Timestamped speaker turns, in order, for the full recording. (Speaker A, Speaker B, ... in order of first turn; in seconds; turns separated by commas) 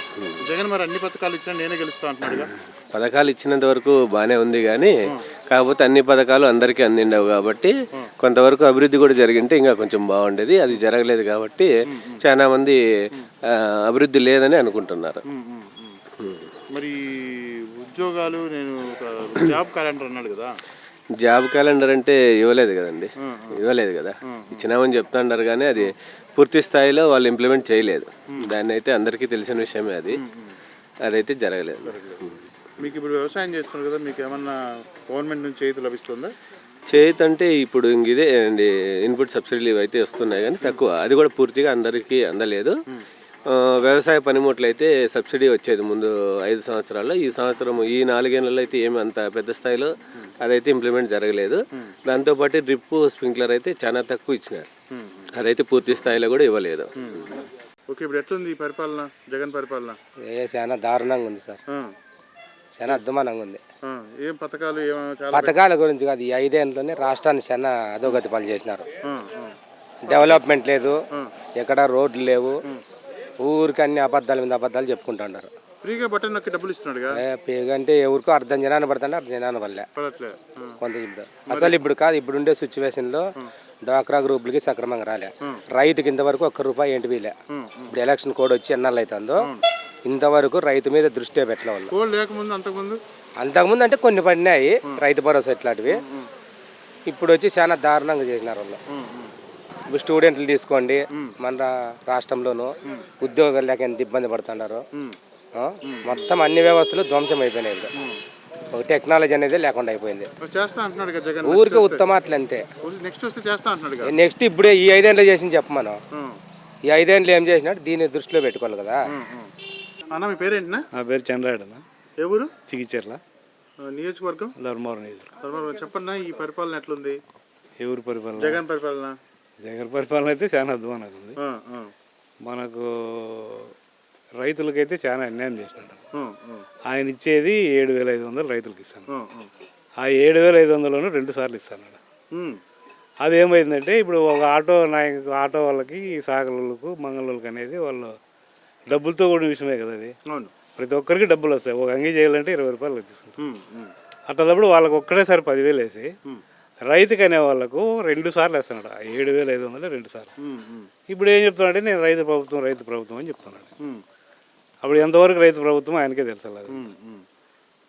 Speaker A: 0.4-2.5, Speaker B: 2.9-4.9, Speaker B: 5.5-11.7, Speaker A: 11.9-12.2, Speaker B: 12.2-12.8, Speaker B: 13.9-15.2, Speaker A: 15.3-16.0, Speaker A: 16.7-20.5, Speaker B: 21.2-30.2, Speaker A: 23.2-23.6, Speaker A: 24.3-24.7, Speaker A: 30.2-30.5, Speaker B: 31.0-32.0, Speaker A: 31.8-32.2, Speaker A: 32.8-36.3, Speaker B: 36.9-42.7, Speaker B: 43.5-54.7, Speaker A: 54.9-55.3, Speaker B: 55.3-56.9, Speaker A: 57.0-57.3, Speaker A: 57.9-60.0, Speaker C: 60.2-61.6, Speaker A: 61.7-61.9, Speaker C: 62.8-63.6, Speaker A: 63.8-65.6, Speaker C: 65.3-68.8, Speaker A: 69.0-69.5, Speaker C: 70.0-71.0, Speaker A: 70.1-70.5, Speaker C: 71.6-72.6, Speaker C: 73.4-75.5, Speaker A: 75.8-77.2, Speaker C: 77.1-79.8, Speaker A: 80.0-80.8, Speaker C: 80.8-83.3, Speaker A: 81.4-81.8, Speaker C: 83.8-87.3, Speaker A: 87.5-88.0, Speaker C: 87.9-89.4, Speaker C: 90.0-91.9, Speaker A: 91.9-93.0, Speaker C: 93.4-96.0, Speaker A: 95.9-96.3, Speaker C: 97.1-98.8, Speaker A: 98.9-99.3, Speaker C: 99.9-104.8, Speaker C: 105.5-107.9, Speaker A: 105.8-106.4, Speaker C: 108.7-110.3, Speaker A: 110.4-112.1, Speaker C: 111.4-112.6, Speaker A: 112.8-114.2, Speaker C: 114.1-116.0, Speaker A: 116.1-116.4, Speaker C: 116.9-119.0, Speaker A: 119.1-119.5, Speaker A: 120.1-120.8, Speaker D: 120.9-121.8, Speaker A: 122.2-122.5, Speaker D: 122.7-123.2, Speaker A: 123.8-124.5, Speaker D: 124.6-125.3, Speaker A: 125.4-127.2, Speaker D: 127.8-128.6, Speaker A: 128.3-129.2, Speaker D: 129.6-131.4, Speaker A: 131.4-131.9, Speaker D: 132.4-133.7, Speaker D: 134.4-136.0, Speaker A: 136.1-136.7, Speaker D: 136.9-139.1, Speaker A: 139.1-139.5, Speaker D: 140.0-142.0, Speaker A: 142.3-142.6, Speaker D: 143.2-148.2, Speaker D: 148.9-150.1, Speaker D: 150.8-153.4, Speaker A: 153.4-153.9, Speaker D: 154.3-156.1, Speaker D: 156.9-160.3, Speaker A: 160.4-160.9, Speaker D: 161.1-163.7, Speaker D: 164.8-166.8, Speaker A: 166.7-167.2